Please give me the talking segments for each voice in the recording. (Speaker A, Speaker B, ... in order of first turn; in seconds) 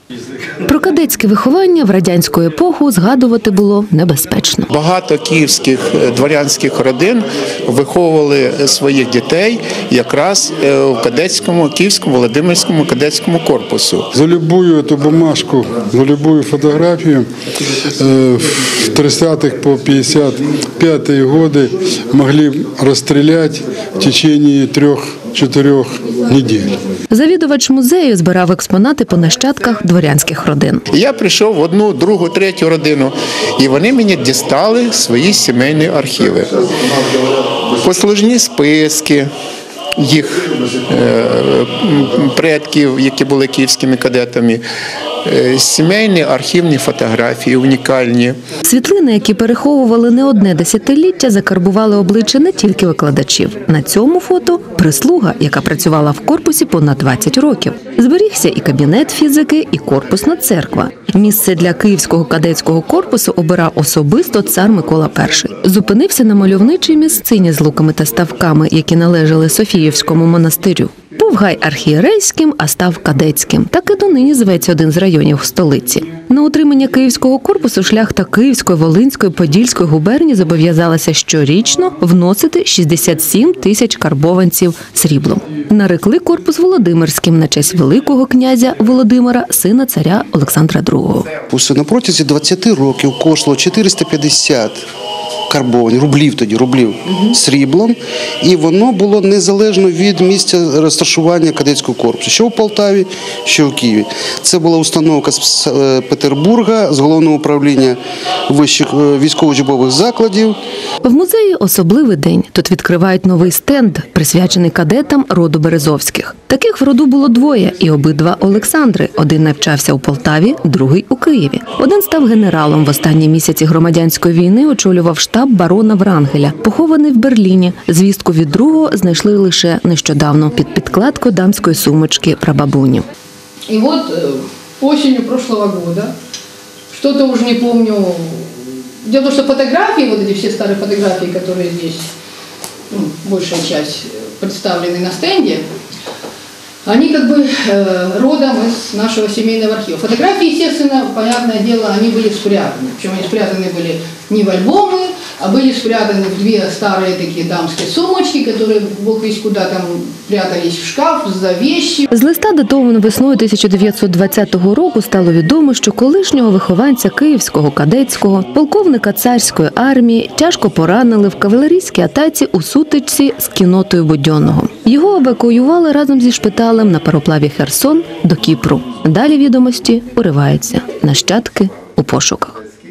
Speaker A: 0.6-4.7, 27.1-30.8, 48.6-91.3, 111.0-133.0, 162.1-182.6
Speaker B: 4.7-14.1, 30.9-36.5, 37.7-39.3, 40.0-44.6, 45.2-48.4
Speaker C: 14.1-17.3, 17.9-26.7
Speaker D: 91.5-94.8, 95.5-110.6
Speaker E: 133.7-136.1, 136.9-142.1, 142.9-145.7, 146.8-162.1